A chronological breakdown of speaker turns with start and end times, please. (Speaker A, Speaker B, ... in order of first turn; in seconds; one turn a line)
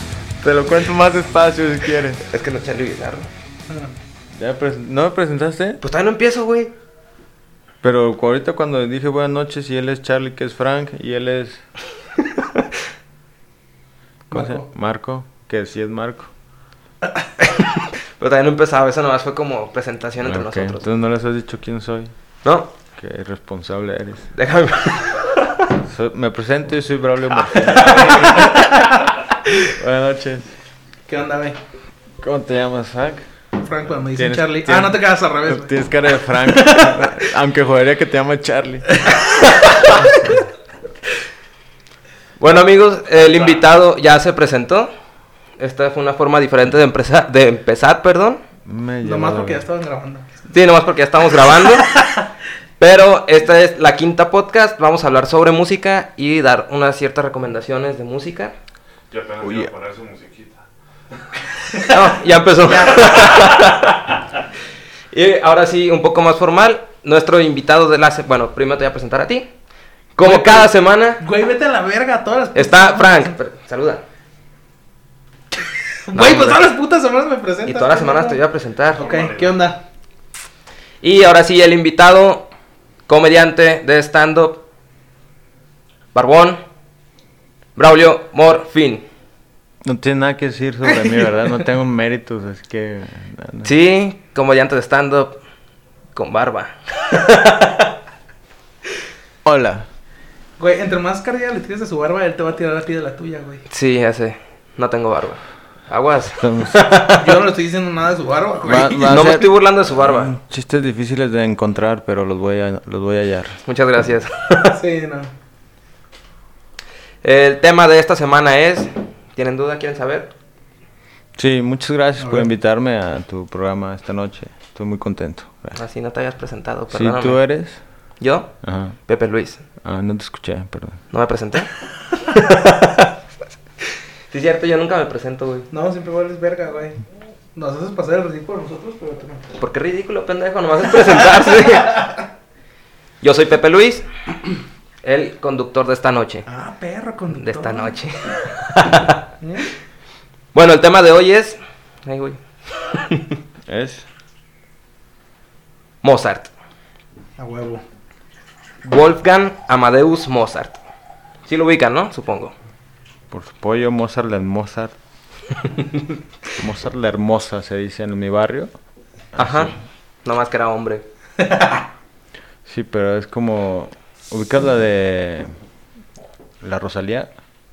Speaker A: 0.4-2.2
Speaker B: 2.3-3.3
Speaker A: 4.3-5.8
Speaker B: 5.8-6.7
Speaker A: 7.8-11.6
Speaker C: 14.3-14.6
Speaker A: 14.3-16.3
Speaker B: 17.4-20.9
Speaker A: 20.2-22.1
Speaker B: 22.4-22.7
Speaker A: 23.0-24.3
Speaker B: 24.3-25.2
Speaker A: 25.8-28.3
Speaker D: 27.8-28.3
Speaker A: 29.7-30.5
Speaker C: 31.1-31.6
Speaker A: 32.2-33.3
Speaker C: 33.6-35.7
Speaker A: 34.1-39.0
Speaker C: 36.4-37.0
Speaker B: 39.3-39.9
Speaker B: 42.4-44.9
Speaker B: 45.6-48.4
Speaker A: 48.6-49.6
Speaker C: 49.0-50.3
Speaker B: 50.5-52.0
Speaker B: 52.8-58.5
Speaker D: 59.1-61.8
Speaker A: 59.4-59.7
Speaker B: 61.9-63.9
Speaker D: 63.0-63.7
Speaker B: 65.1-69.5
Speaker B: 70.2-71.2
Speaker C: 70.2-70.7
Speaker C: 71.2-73.3
Speaker B: 72.5-74.0
Speaker C: 76.0-78.4
Speaker B: 76.1-76.6
Speaker B: 77.7-79.1
Speaker C: 78.9-79.8
Speaker D: 79.0-79.5
Speaker B: 81.0-82.5
Speaker B: 83.1-84.6
Speaker B: 86.1-86.6
Speaker B: 87.8-89.0
Speaker A: 89.8-93.7
Speaker B: 93.6-95.4
Speaker B: 96.1-97.9
Speaker A: 99.4-99.9
Speaker C: 100.6-103.6
Speaker B: 103.7-107.2
Speaker A: 106.4-106.8
Speaker C: 107.0-109.0
Speaker A: 108.6-113.6
Speaker B: 108.9-110.3
Speaker B: 113.7-114.7
Speaker C: 114.7-115.3
Speaker B: 117.2-120.3
Speaker A: 121.3-125.8
Speaker C: 122.2-122.5
Speaker B: 125.8-127.4
Speaker A: 126.9-127.8
Speaker B: 128.2-129.6
Speaker A: 128.6-128.9
Speaker A: 129.8-131.0
Speaker B: 131.1-133.1
Speaker B: 134.3-135.7
Speaker C: 135.7-139.4
Speaker B: 139.6-142.1
Speaker B: 143.2-144.1
Speaker B: 145.0-146.5
Speaker C: 146.5-148.0
Speaker B: 147.3-149.2
Speaker C: 149.4-149.7
Speaker B: 150.5-153.3
Speaker A: 153.7-154.0
Speaker B: 156.0-156.5
Speaker C: 157.4-157.8
Speaker B: 158.8-160.8
Speaker B: 161.4-162.5
Speaker A: 163.3-164.9
Speaker A: 166.6-168.7
Speaker A: 169.3-169.7
Speaker B: 169.3-171.0
Speaker C: 171.4-171.8
Speaker A: 172.7-175.5
Speaker A: 176.6-177.3